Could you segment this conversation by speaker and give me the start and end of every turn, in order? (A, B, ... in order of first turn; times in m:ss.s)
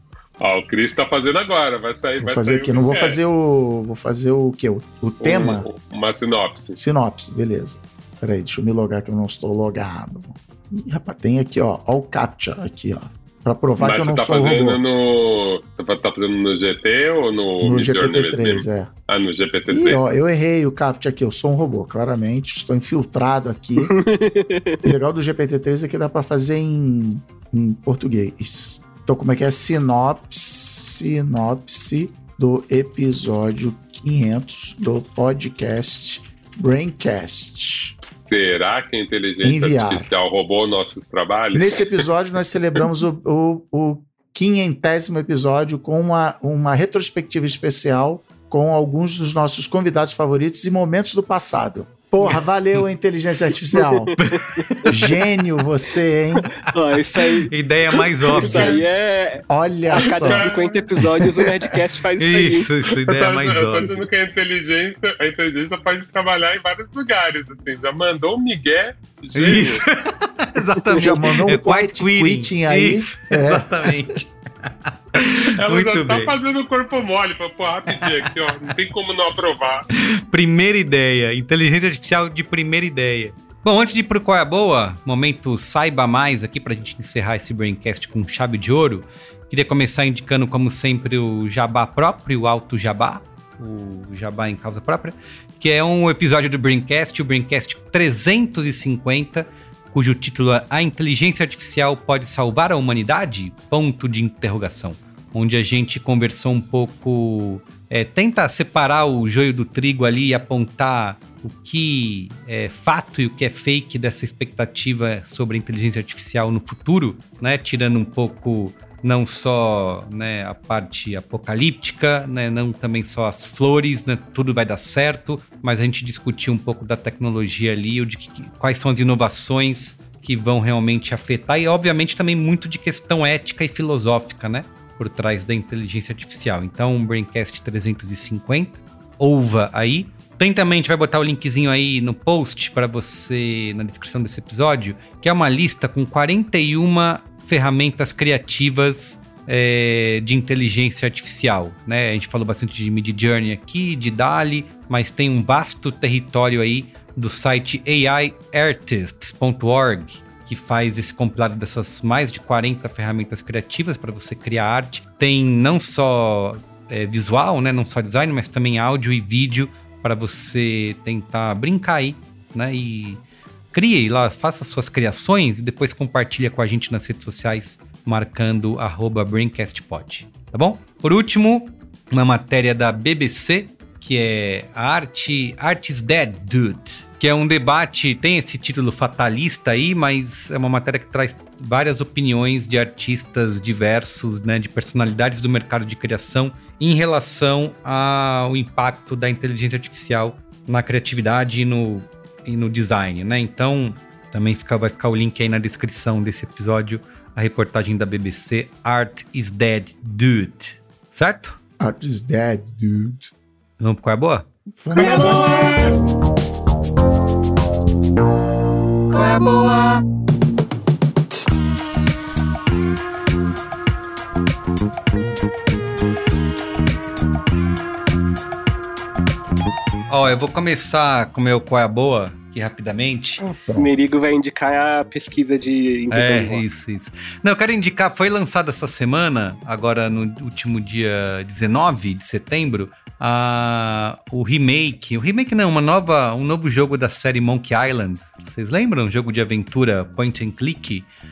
0:00.4-0:03.2 A
0:02.2-0:05.6 B
0:05.2-0:06.8 A
0:06.8-0:14.8 B
0:13.8-0:20.0 A
0:17.6-0:18.9 B
0:19.7-0:23.9 B
0:23.8-0:24.8 C
0:24.8-0:38.0 B
0:38.3-0:42.0 A
0:39.4-0:40.1 B
0:41.5-0:54.2 B
0:52.2-0:52.8 D
0:54.0-0:55.0 C
0:54.2-0:54.8 D
0:54.8-0:56.5 B
0:56.4-0:59.4 C
0:56.7-0:58.8 D
0:59.5-1:00.4 B
1:00.0-1:02.7 C
1:00.1-1:00.6 A
1:02.2-1:04.1 D
1:03.0-1:09.8 A
1:09.3-1:16.4 D
1:11.0-1:14.1 B
1:15.2-1:19.9 A
1:17.9-1:18.7 D
1:20.0-3:31.6 D
3:31.8-3:33.3 B
3:33.8-3:34.5 D
3:34.7-3:35.6 B
3:35.0-3:35.9 A
3:50.1-3:53.4 D
3:53.4-3:53.9 B
3:53.8-3:56.6 C
3:56.1-4:11.1 D